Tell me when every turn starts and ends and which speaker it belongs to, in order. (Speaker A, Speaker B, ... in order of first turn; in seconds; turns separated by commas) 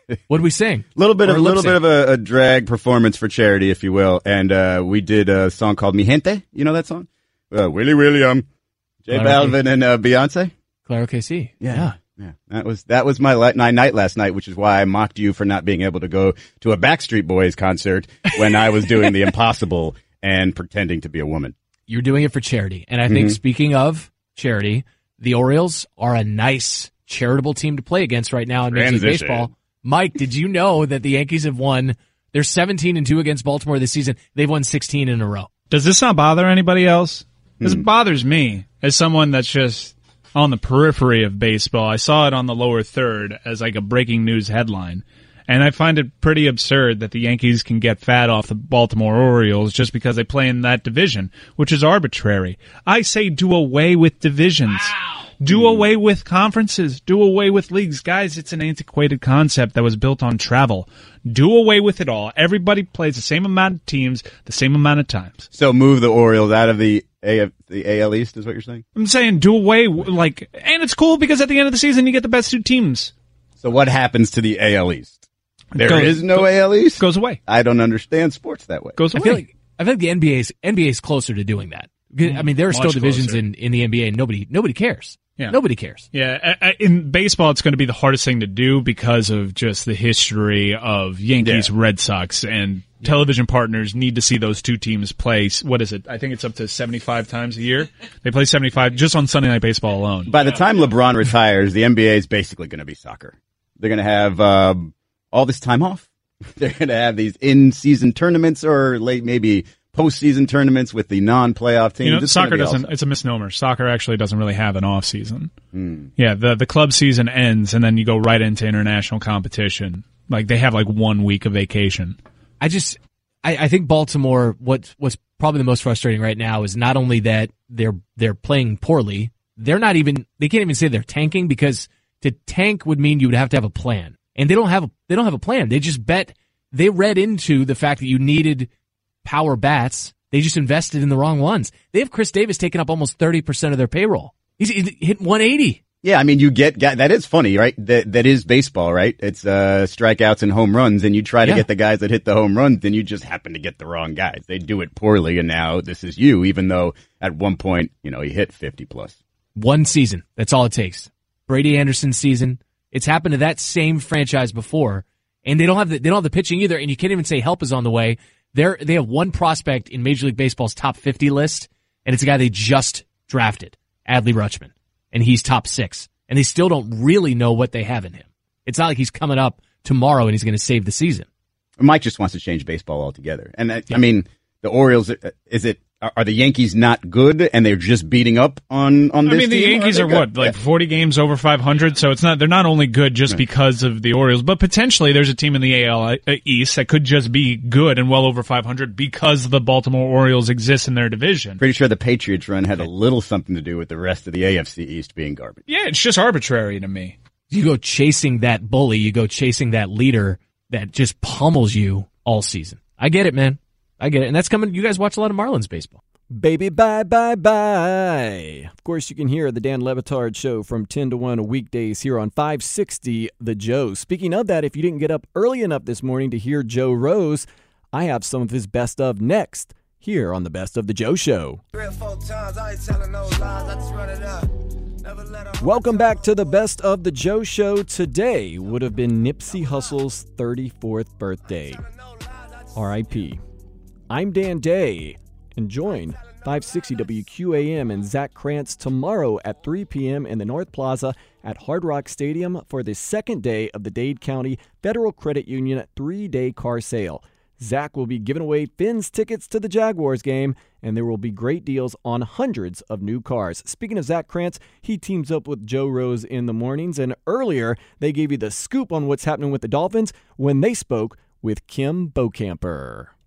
Speaker A: 0.3-1.8, Speaker B: 1.0-8.5, Speaker B: 9.0-10.5, Speaker A: 9.1-9.6, Speaker A: 10.9-12.0, Speaker B: 11.6-21.6, Speaker A: 21.9-35.5, Speaker B: 23.1-23.4, Speaker B: 28.7-29.5, Speaker C: 35.7-65.5, Speaker B: 55.5-55.9, Speaker B: 65.5-68.8, Speaker C: 69.0-73.1, Speaker B: 73.6-75.2, Speaker C: 75.8-77.4, Speaker B: 75.8-79.0, Speaker C: 79.0-79.5, Speaker A: 79.1-86.1, Speaker C: 82.2-83.4, Speaker C: 86.1-100.4, Speaker B: 91.4-91.7, Speaker B: 100.3-112.9, Speaker C: 112.0-115.5, Speaker B: 115.7-116.1, Speaker C: 116.2-122.2, Speaker A: 122.6-138.7, Speaker A: 139.2-145.8, Speaker B: 146.0-159.2, Speaker A: 159.6-181.3, Speaker B: 181.8-190.6, Speaker C: 189.2-201.6, Speaker B: 201.6-205.6, Speaker C: 205.7-207.2, Speaker A: 207.5-216.0, Speaker D: 216.3-231.6, Speaker D: 235.6-241.8, Speaker D: 242.8-243.4, Speaker D: 244.1-273.1